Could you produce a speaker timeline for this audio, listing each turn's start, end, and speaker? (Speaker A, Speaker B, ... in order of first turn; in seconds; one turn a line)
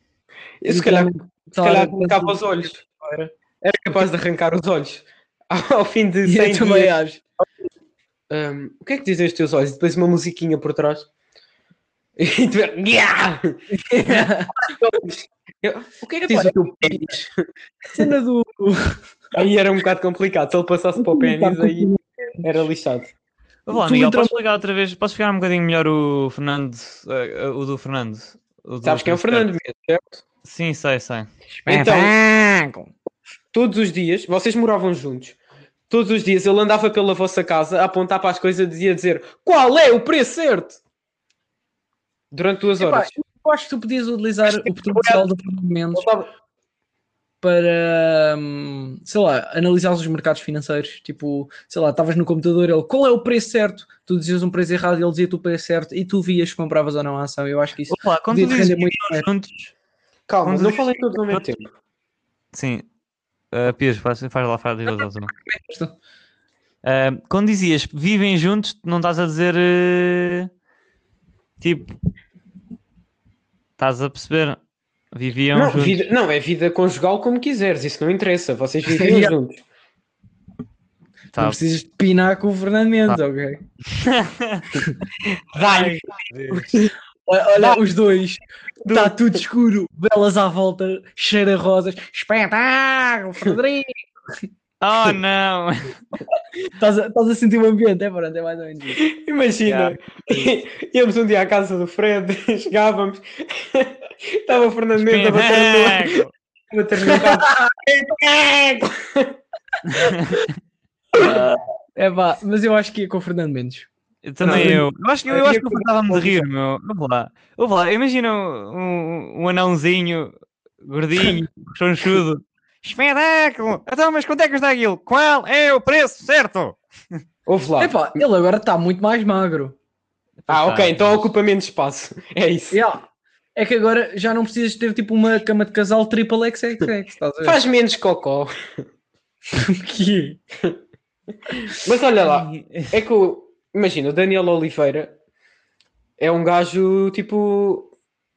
Speaker A: 0.6-2.8
Speaker B: 0.7-3.3
Speaker A: 3.6-7.0
Speaker B: 6.2-7.2
Speaker A: 8.3-11.1
Speaker A: 12.2-17.3
Speaker B: 13.7-14.6
Speaker B: 16.2-17.1
Speaker B: 17.9-19.0
Speaker A: 19.3-21.9
Speaker B: 21.0-22.6
Speaker A: 22.4-23.1
Speaker C: 23.6-29.5
Speaker B: 23.7-24.3
Speaker A: 28.8-30.2
Speaker C: 30.4-31.3
Speaker B: 31.6-32.9
Speaker A: 31.7-32.1
Speaker A: 33.5-35.4
Speaker A: 35.9-40.8
Speaker A: 42.3-43.1
Speaker B: 42.8-46.1
Speaker A: 44.5-45.2
Speaker A: 45.9-46.3
Speaker B: 47.4-59.3
Speaker C: 57.9-59.7
Speaker A: 60.3-61.7
Speaker C: 60.5-60.8
Speaker C: 62.5-62.9
Speaker C: 63.5-65.3
Speaker B: 65.4-65.9
Speaker C: 66.8-70.5
Speaker C: 71.6-72.0
Speaker C: 73.8-74.6
Speaker C: 75.1-76.1
Speaker A: 75.5-79.6
Speaker B: 78.9-79.3
Speaker B: 81.3-83.6
Speaker C: 83.9-84.7
Speaker A: 85.5-86.9
Speaker C: 85.6-86.7
Speaker B: 87.3-94.0
Speaker A: 88.8-89.4
Speaker C: 94.8-96.0
Speaker B: 96.8-99.0
Speaker A: 99.0-109.4
Speaker C: 99.7-100.2
Speaker C: 105.0-106.3
Speaker B: 107.0-107.5
Speaker C: 109.9-110.5
Speaker B: 111.2-113.9
Speaker C: 114.2-126.8
Speaker A: 114.4-116.5
Speaker B: 114.4-114.8
Speaker A: 127.5-128.1
Speaker B: 127.8-129.8
Speaker C: 130.4-131.2
Speaker A: 130.5-132.8
Speaker B: 132.7-133.0
Speaker B: 133.5-137.6
Speaker A: 137.4-138.5
Speaker B: 139.5-140.4
Speaker A: 141.5-145.2
Speaker C: 142.4-142.9
Speaker A: 146.2-147.9